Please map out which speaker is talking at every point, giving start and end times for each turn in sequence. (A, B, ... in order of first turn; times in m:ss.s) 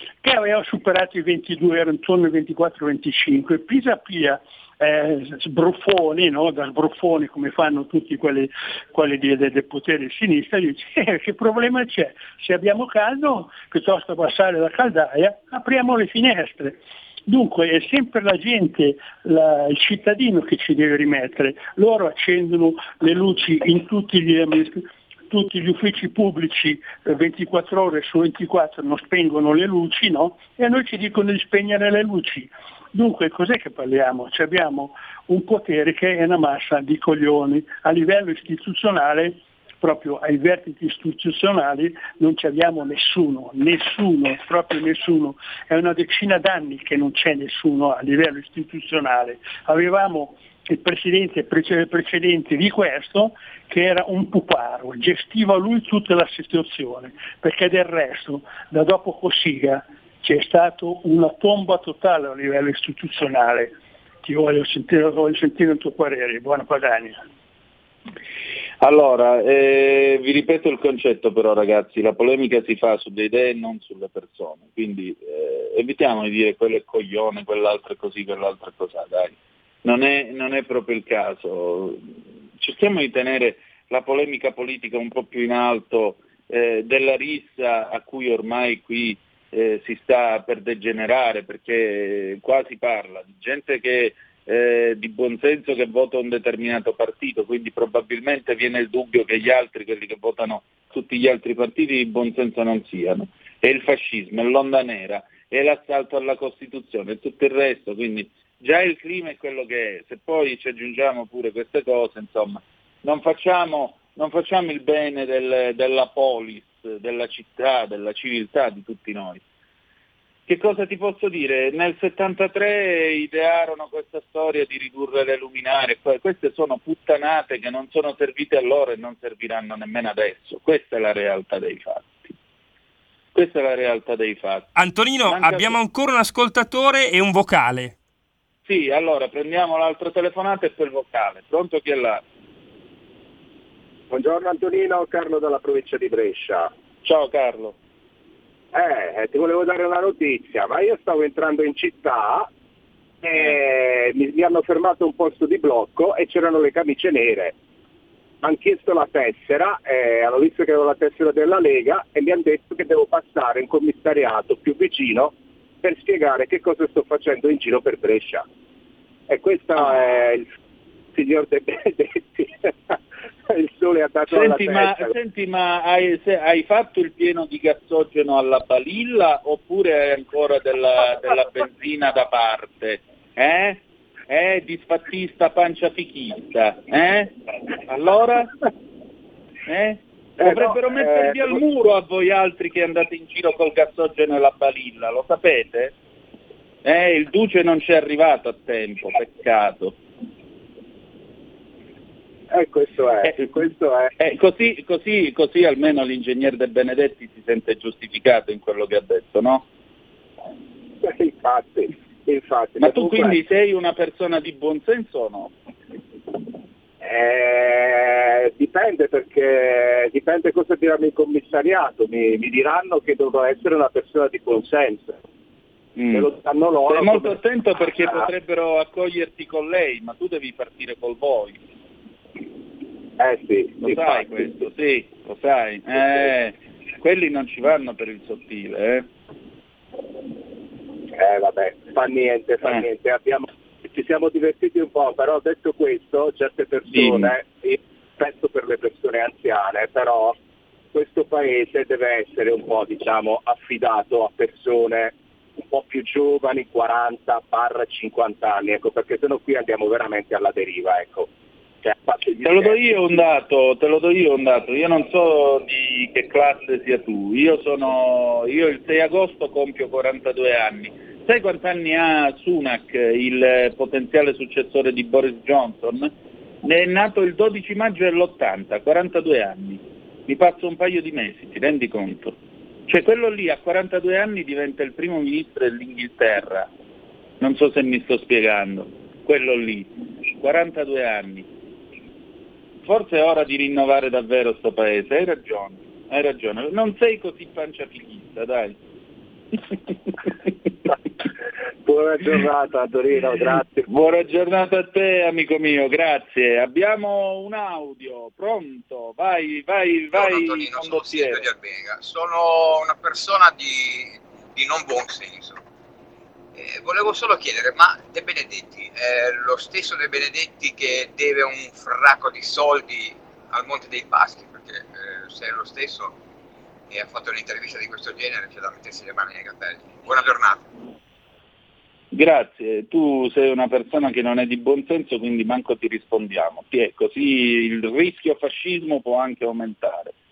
0:00.2-1:07.2 A
1:08.8-1:22.0 B
1:22.6-1:59.4 B
2:00.5-2:12.3 B
2:13.4-2:14.7 B
2:14.8-2:17.9 C
2:15.3-2:15.8 B
2:18.7-2:22.2 B
2:24.1-2:27.7 D
2:27.1-2:27.6 B
2:28.7-2:32.5 D
2:33.2-2:37.6 D
2:38.4-2:48.4 D
2:49.3-2:50.5 D
2:51.1-2:53.0 D
2:53.5-2:55.2 D
2:54.3-3:08.5 B
3:09.7-3:15.9 B
3:10.4-3:11.6 D
3:16.8-3:20.0 B
3:22.5-3:24.1 D
3:23.2-3:23.5 B
3:24.2-3:29.7 B
3:31.0-3:33.4 D
3:32.8-3:35.5 B
3:37.0-3:45.2 D
3:46.0-3:46.3 B
3:46.1-3:47.4 D
3:46.9-3:51.6 B
3:48.0-3:48.3 D
3:53.2-3:54.4 D
3:53.8-3:59.1 B
4:01.1-4:10.4 D
4:06.9-4:07.4 B
4:10.9-4:21.3 D
4:21.8-4:22.8 D
4:22.4-4:36.1 B
4:36.6-4:46.7 B
4:47.4-4:51.5 B
4:52.8-4:58.8 B
5:01.8-5:03.9 D
5:03.9-5:11.5 B
5:10.1-5:15.6 E
5:16.6-5:26.2 E
5:26.9-5:30.7 E
5:32.1-5:40.1 B